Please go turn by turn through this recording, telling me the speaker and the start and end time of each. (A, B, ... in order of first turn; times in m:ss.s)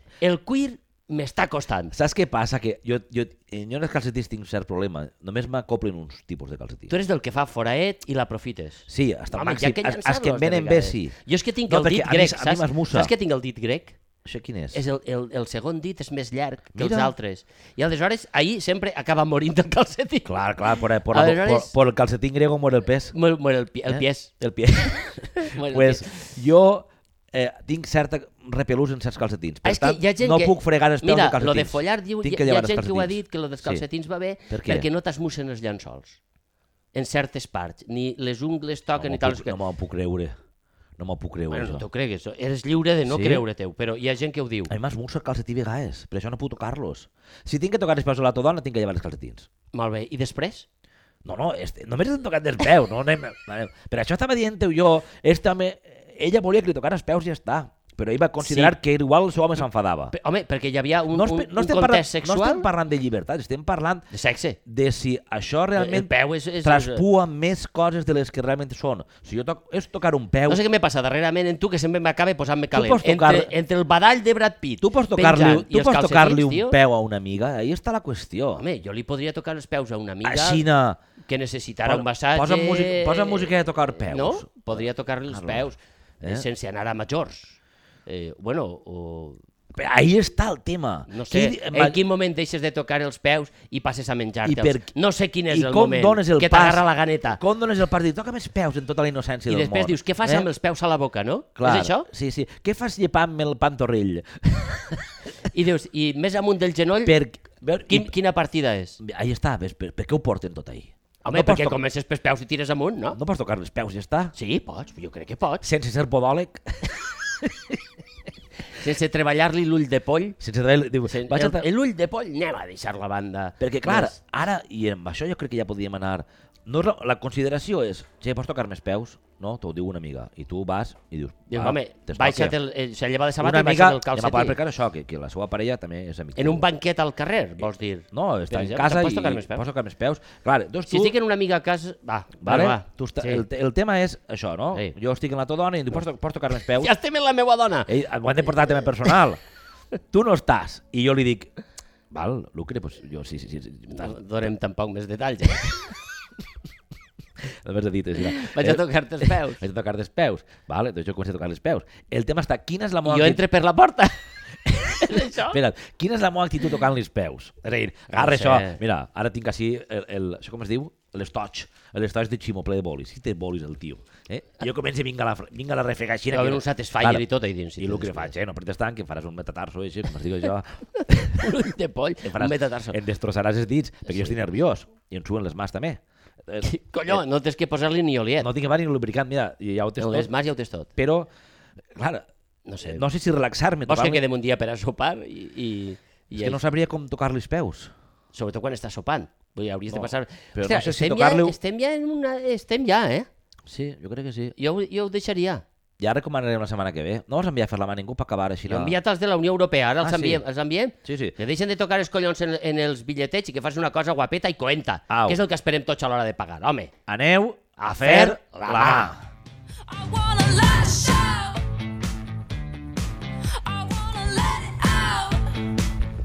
0:00.2-0:02.0 A
0:01.9-0:06.9 B
0:06.9-0:14.0 A
0:08.9-0:11.2 B
0:11.7-0:13.1 B
0:14.2-0:14.8 B
0:14.7-0:20.3 A
0:16.8-0:17.1 B
0:20.2-0:23.1 B
0:21.1-0:21.7 A
0:23.1-0:24.3 A
0:23.9-0:33.8 B
0:25.3-0:26.3 A
0:29.6-0:36.2 A
0:34.5-0:34.9 B
0:36.9-0:39.6 A
0:39.0-0:40.4 B
0:41.0-0:41.8 B
0:41.5-0:44.7 A
0:43.1-0:43.4 B
0:44.7-0:49.5 B
0:49.7-0:50.7 A
0:51.2-1:00.1 B
0:58.4-0:58.7 A
1:00.1-1:02.7 A
1:01.1-1:04.1 B
1:04.1-1:04.6 A
1:04.7-1:06.1 B
1:05.8-1:07.0 A
1:06.6-1:10.6 B
1:10.5-1:16.8 A
1:12.7-1:13.5 B
1:14.8-1:18.6 B
1:18.6-1:20.6 A
1:20.2-1:21.0 B
1:21.3-1:29.4 A
1:21.8-1:25.7 B
1:26.2-1:26.5 B
1:29.7-1:32.0 B
1:31.1-1:37.4 A
1:34.4-1:34.9 B
1:35.5-1:36.8 B
1:37.4-1:40.5 B
1:39.5-1:42.1 A
1:41.6-1:45.0 B
1:45.5-1:47.2 A
1:47.0-1:48.1 B
1:47.9-1:49.0 A
1:49.0-1:51.8 B
1:51.2-1:53.2 A
1:53.1-1:54.3 B
1:54.3-1:55.6 A
1:55.6-1:57.5 B
1:58.7-2:00.4 A
2:00.4-2:01.7 B
2:01.1-2:04.2 A
2:03.6-2:12.6 B
2:11.5-2:14.6 A
2:13.4-2:16.7 B
2:16.4-2:19.6 A
2:18.1-2:21.2 B
2:20.9-2:23.4 A
2:22.4-2:26.9 B
2:26.7-2:27.9 A
2:27.9-2:29.4 B
2:30.1-2:31.5 B
2:32.1-2:34.2 B
2:33.9-2:35.9 A
2:37.5-2:43.4 B
2:38.2-2:39.6 A
2:43.0-2:44.2 A
2:44.7-2:57.2 B
2:44.8-2:45.6 A
2:48.2-2:48.8 A
2:56.3-2:58.3 A
2:57.8-3:01.5 B
3:01.3-3:03.0 A
3:02.2-3:07.2 B
3:04.1-3:04.4 A
3:06.6-3:08.5 A
3:08.4-3:10.3 B
3:10.0-3:10.9 A
3:11.0-3:11.3 B
3:12.0-3:12.3 B
3:12.7-3:13.1 A
3:12.9-3:14.2 B
3:13.9-3:16.6 A
3:16.4-3:17.9 B
3:18.3-3:23.3 A
3:19.9-3:21.6 B
3:23.7-3:24.5 B
3:24.6-3:25.6 A
3:26.0-3:29.0 B
3:28.7-3:36.9 A
3:30.0-3:30.4 B
3:31.0-3:31.4 B
3:35.1-3:35.4 B
3:37.1-3:39.2 B
3:37.8-3:39.1 A
3:39.8-3:41.8 C
3:43.4-3:45.8 C